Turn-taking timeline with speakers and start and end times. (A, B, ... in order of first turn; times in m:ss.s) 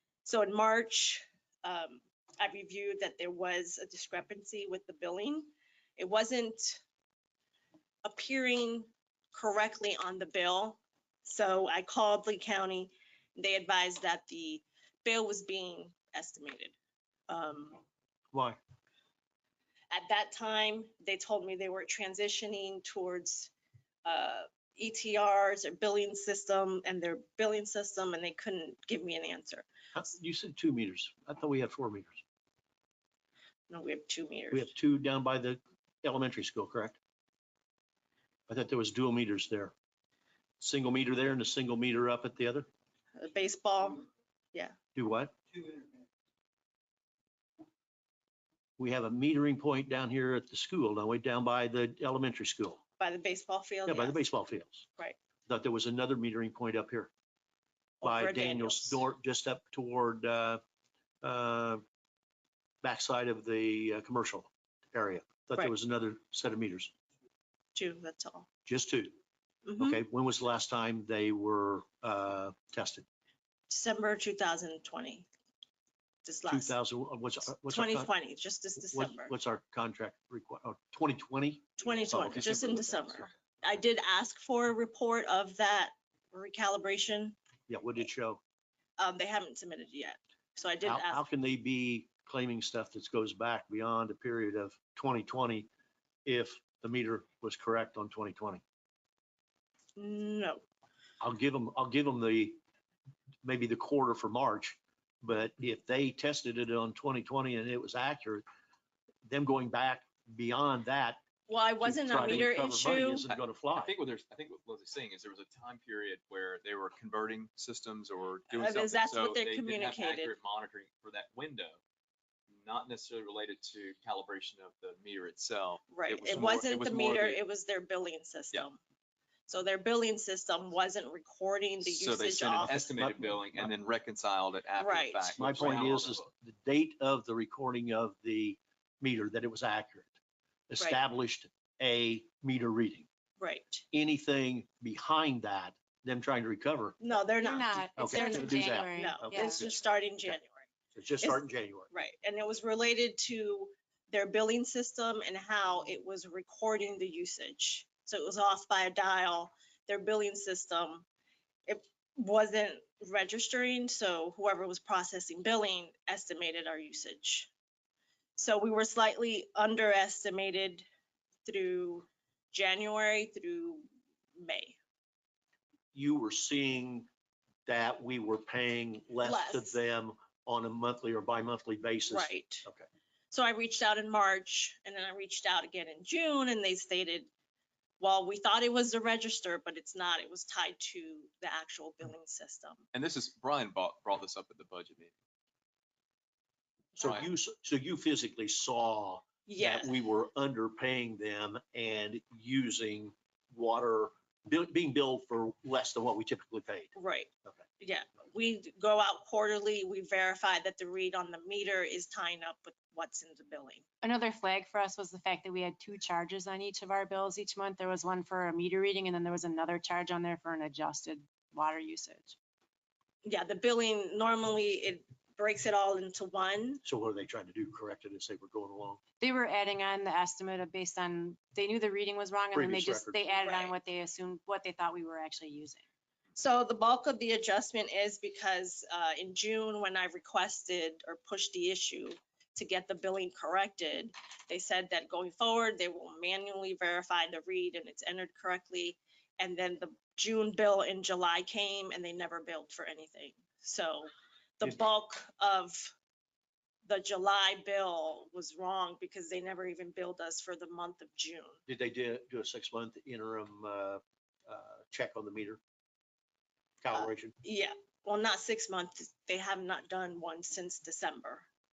0:00.2-0:06.8 A
0:08.0-0:16.8 A
0:17.3-0:17.8 A
0:18.3-0:18.6 B
0:19.9-0:23.5 A
0:24.0-0:29.7 A
0:29.9-0:32.2 B
0:33.7-0:34.7 A
0:34.5-0:37.0 B
0:38.5-0:39.7 B
0:40.6-0:42.7 B
0:43.2-0:44.8 A
0:45.0-0:45.4 B
0:48.8-0:52.8 B
0:53.0-0:54.2 A
0:53.9-0:54.8 B
0:55.5-0:57.1 B
0:58.0-0:59.0 A
0:58.0-1:00.6 B
1:01.2-1:01.8 B
1:02.8-1:06.9 B
1:07.8-1:08.5 A
1:08.7-1:09.2 B
1:09.7-1:10.0 A
1:09.8-1:13.0 B
1:13.7-1:15.3 A
1:16.2-1:16.8 A
1:16.5-1:18.1 B
1:17.7-1:19.3 A
1:18.8-1:23.3 B
1:21.8-1:27.4 A
1:27.7-1:28.4 B
1:29.0-1:31.2 A
1:30.8-1:35.7 B
1:36.2-1:38.6 B
1:40.0-1:40.6 A
1:41.2-1:42.6 B
1:43.4-1:48.4 B
1:49.2-1:51.2 B
1:51.5-1:53.2 A
1:51.8-1:53.9 B
1:52.2-2:01.8 C
1:58.6-2:00.3 A
2:02.5-2:07.4 C
2:05.9-2:08.8 A
2:09.5-2:12.9 A
2:11.8-2:16.3 C
2:12.6-2:13.7 B
2:14.8-2:15.8 A
2:15.3-2:20.1 B
2:20.7-2:23.1 B
2:23.4-2:23.8 A
2:23.9-2:27.0 B
2:27.0-2:30.6 A
2:27.4-2:29.6 D
2:28.0-2:30.4 B
2:31.0-2:31.9 B
2:31.2-2:41.1 A
2:41.7-2:47.5 A
2:48.4-2:50.8 A
2:51.4-2:54.8 A
2:55.9-2:57.1 B
2:57.7-3:02.9 B
2:59.2-2:59.8 A
3:02.1-3:02.7 A
3:03.3-3:07.3 A
3:08.0-3:12.8 A
3:12.9-3:15.1 C
3:17.0-3:17.3 C
3:17.0-3:26.9 B
3:19.5-3:20.0 A
3:27.0-3:27.3 A
3:27.8-3:33.8 A
3:34.0-3:42.4 D
3:43.2-3:46.8 A
3:46.8-3:49.0 B
3:49.2-3:55.8 D
3:52.5-3:53.2 B
3:53.4-3:53.8 A
3:56.4-4:15.9 A
4:16.8-4:21.6 A
4:21.7-4:25.6 B
4:26.8-4:27.3 B
4:27.0-4:31.5 A